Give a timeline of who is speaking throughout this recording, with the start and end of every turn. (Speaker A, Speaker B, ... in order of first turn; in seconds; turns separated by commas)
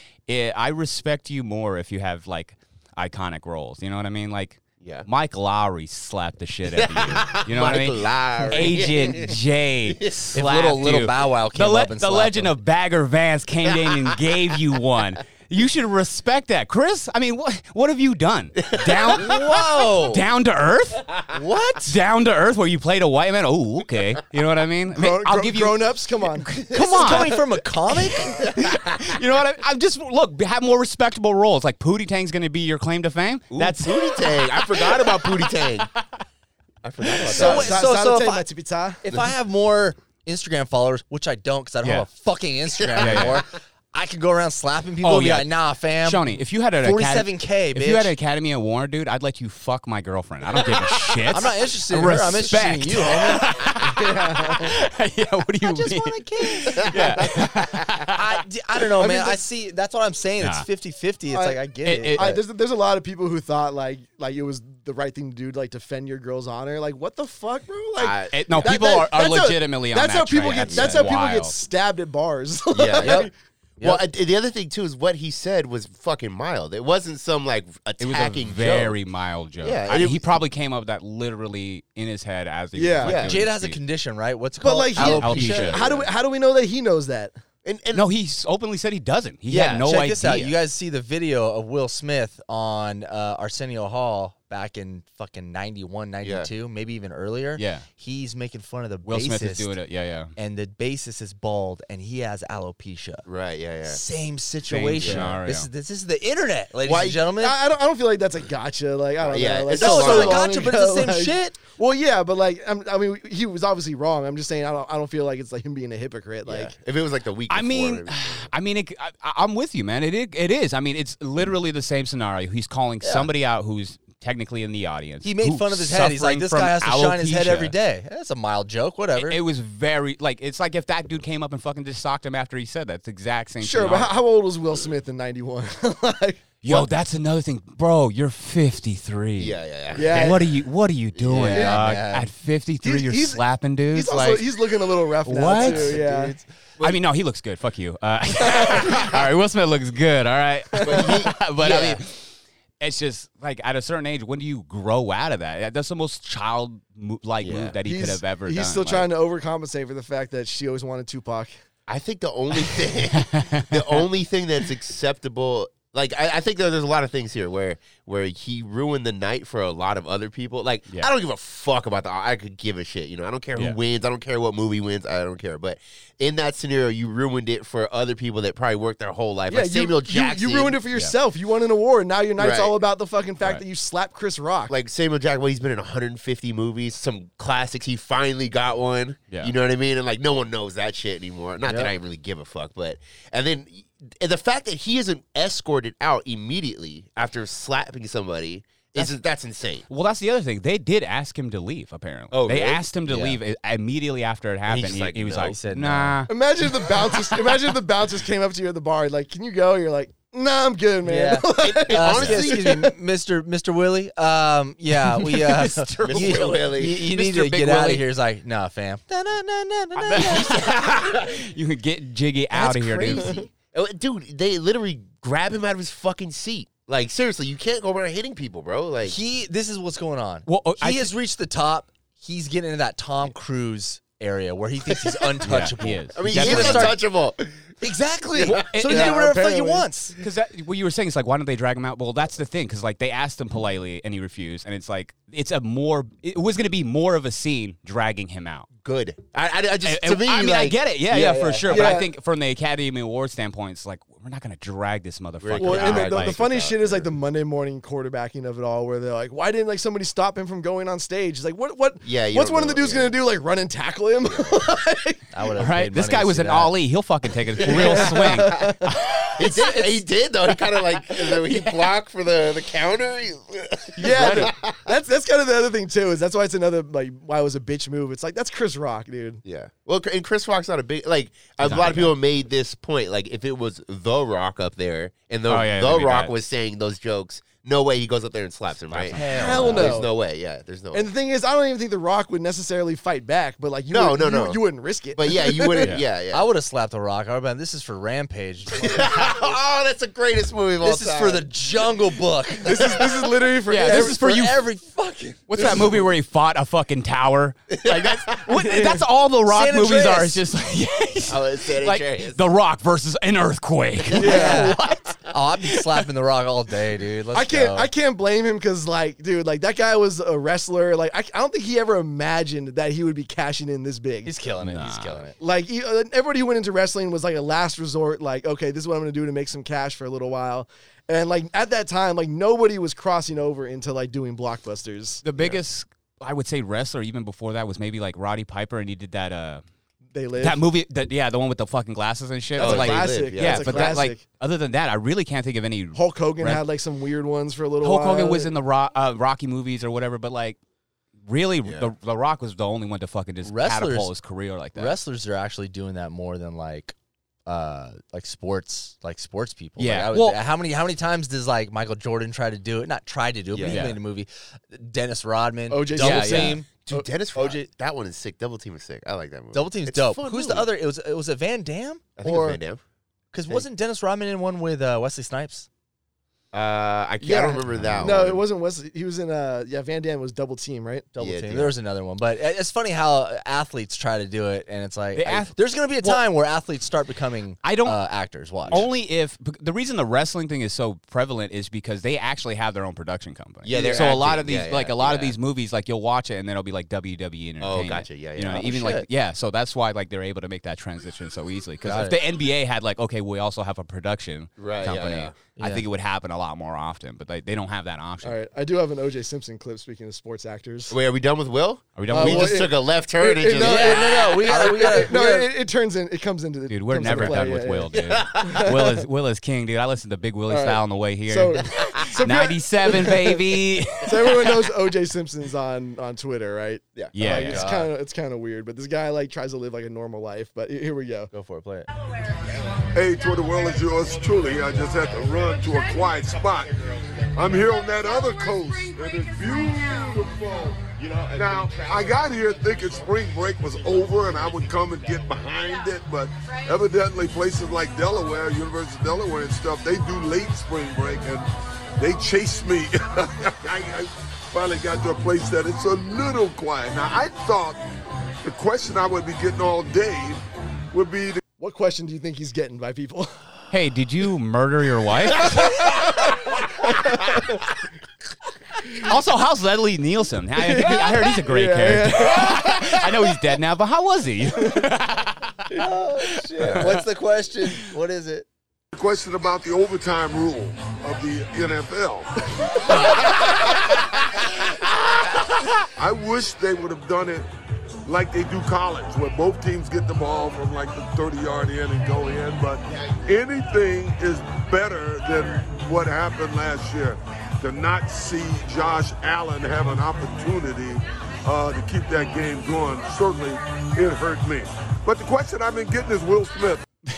Speaker A: 0.3-21.3, Speaker B: 4.8-5.1, Speaker B: 6.7-10.3, Speaker C: 10.3-12.5, Speaker B: 18.6-19.4, Speaker C: 19.1-20.2, Speaker C: 21.3-21.9, Speaker A: 21.8-36.0, Speaker D: 24.9-26.5, Speaker B: 26.7-27.2, Speaker C: 26.7-28.5, Speaker B: 33.5-35.9, Speaker B: 36.8-37.8, Speaker C: 37.3-38.4, Speaker D: 37.4-39.0, Speaker C: 39.0-48.1, Speaker B: 42.8-43.4, Speaker A: 42.9-43.4, Speaker A: 45.0-58.4, Speaker C: 51.3-53.6, Speaker D: 53.8-54.8, Speaker C: 55.6-57.4, Speaker B: 56.8-57.5, Speaker C: 58.1-62.4, Speaker D: 59.0-59.4, Speaker A: 60.4-60.6, Speaker D: 61.3-73.3, Speaker A: 61.8-62.3, Speaker B: 68.0-68.7, Speaker A: 68.3-71.5, Speaker B: 72.7-79.0, Speaker C: 73.0-74.0, Speaker A: 78.0-83.8, Speaker B: 79.6-80.4, Speaker D: 82.7-83.2, Speaker B: 83.0-83.4, Speaker C: 83.2-85.8, Speaker D: 84.6-87.3, Speaker A: 85.0-85.8, Speaker B: 85.0-86.1, Speaker B: 87.6-88.1, Speaker A: 87.9-90.5, Speaker C: 89.5-99.7, Speaker B: 90.2-90.5, Speaker B: 96.2-96.5, Speaker A: 97.6-97.9, Speaker A: 99.0-100.3, Speaker C: 100.4-103.2, Speaker B: 103.2-104.0, Speaker C: 103.8-107.5, Speaker A: 104.7-105.7, Speaker B: 105.0-105.4, Speaker B: 106.8-107.2, Speaker D: 107.4-116.7, Speaker B: 109.2-110.5, Speaker C: 109.7-111.6, Speaker B: 116.5-118.5, Speaker A: 117.5-127.7, Speaker C: 123.0-123.3, Speaker C: 125.2-129.4, Speaker A: 129.2-134.1, Speaker D: 133.6-136.8, Speaker A: 136.6-144.6, Speaker B: 139.4-140.4, Speaker D: 139.9-140.4, Speaker B: 141.1-141.6, Speaker C: 141.3-142.3, Speaker D: 141.5-141.8, Speaker D: 142.8-146.4, Speaker A: 145.2-146.0, Speaker C: 145.5-146.4, Speaker A: 146.8-159.1, Speaker D: 148.6-148.9, Speaker D: 150.8-151.1, Speaker B: 150.8-152.0, Speaker B: 157.4-157.8, Speaker D: 157.8-161.5, Speaker B: 161.9-180.8, Speaker A: 162.7-164.0, Speaker D: 179.5-184.7, Speaker B: 182.4-182.8, Speaker B: 184.7-199.8, Speaker A: 199.9-206.3, Speaker B: 202.3-202.8, Speaker C: 203.1-203.4, Speaker B: 204.7-205.6, Speaker C: 205.4-206.2, Speaker D: 206.3-212.9, Speaker C: 211.0-220.6, Speaker B: 211.6-212.8, Speaker A: 215.2-218.0, Speaker B: 216.0-217.0, Speaker A: 219.9-223.3, Speaker B: 220.3-221.4, Speaker B: 222.5-229.2, Speaker C: 229.0-237.0, Speaker A: 230.4-231.1, Speaker B: 234.9-235.5, Speaker A: 235.4-236.9, Speaker B: 236.1-238.7, Speaker C: 237.8-240.2, Speaker A: 238.4-239.2, Speaker D: 238.8-239.9, Speaker A: 240.2-248.7, Speaker B: 248.8-252.0, Speaker A: 249.8-256.4, Speaker D: 251.7-252.1, Speaker B: 255.4-257.1, Speaker D: 255.6-265.5, Speaker B: 262.0-263.2, Speaker B: 264.2-264.6, Speaker C: 265.3-266.7, Speaker A: 265.6-269.7, Speaker D: 267.6-270.0, Speaker B: 269.4-274.9, Speaker A: 270.7-271.7, Speaker A: 274.0-274.5, Speaker D: 274.0-279.4, Speaker B: 279.4-291.1, Speaker A: 281.6-282.1, Speaker A: 285.5-286.3, Speaker A: 288.9-289.6, Speaker C: 289.1-290.0, Speaker D: 289.1-290.1, Speaker D: 290.9-295.9, Speaker B: 293.9-294.6, Speaker B: 295.1-296.5, Speaker C: 296.3-299.4, Speaker B: 298.7-301.5, Speaker C: 300.8-303.1, Speaker D: 302.6-304.2, Speaker A: 303.7-304.6, Speaker C: 303.8-306.0, Speaker A: 305.5-316.1, Speaker D: 305.6-305.8, Speaker B: 307.8-308.4, Speaker D: 308.5-309.0, Speaker C: 309.5-310.4, Speaker B: 311.3-312.4, Speaker C: 314.1-314.8, Speaker D: 314.1-314.7, Speaker C: 315.3-317.9, Speaker D: 317.3-324.3, Speaker C: 324.2-325.4, Speaker A: 324.6-325.2, Speaker D: 325.4-335.2, Speaker A: 335.2-339.6, Speaker D: 340.1-340.6, Speaker A: 340.4-346.6, Speaker D: 342.6-344.2, Speaker B: 342.6-344.0, Speaker D: 345.9-348.5, Speaker A: 347.8-350.6, Speaker A: 351.2-355.0, Speaker B: 351.6-351.9, Speaker C: 353.4-354.1, Speaker C: 354.7-356.9, Speaker C: 357.4-366.7, Speaker A: 359.8-360.4, Speaker B: 363.5-363.9, Speaker A: 363.7-364.0, Speaker D: 365.7-367.1, Speaker A: 366.0-366.6, Speaker B: 366.9-370.7, Speaker C: 369.5-372.6, Speaker B: 372.2-372.8, Speaker C: 373.3-375.7, Speaker B: 376.5-378.4, Speaker D: 377.2-381.1, Speaker A: 377.7-378.1, Speaker C: 381.1-388.9, Speaker B: 381.2-381.8, Speaker A: 385.1-386.2, Speaker A: 387.6-388.0, Speaker A: 388.7-408.4, Speaker B: 393.6-395.4, Speaker D: 393.7-394.1, Speaker B: 397.6-398.9, Speaker C: 398.5-399.0, Speaker C: 401.8-402.2, Speaker B: 404.6-405.4, Speaker C: 405.6-405.8, Speaker D: 408.2-410.9, Speaker B: 410.9-415.1, Speaker A: 411.9-412.7, Speaker D: 412.1-419.0, Speaker C: 413.5-415.5, Speaker A: 416.7-424.6, Speaker B: 417.9-418.7, Speaker D: 420.5-423.4, Speaker B: 421.7-422.0, Speaker D: 424.0-431.3, Speaker A: 427.1-427.7, Speaker C: 427.2-427.9, Speaker C: 431.3-431.9, Speaker E: 432.9-457.8, Speaker B: 441.1-441.7, Speaker E: 458.4-461.4, Speaker D: 461.6-463.4, Speaker A: 463.7-466.1, Speaker D: 465.4-467.6, Speaker D: 468.8-469.1, Speaker A: 468.9-477.0, Speaker D: 470.6-473.0, Speaker C: 475.7-478.4, Speaker B: 476.6-476.8, Speaker E: 478.9-484.0, Speaker E: 485.9-487.5, Speaker E: 488.1-506.8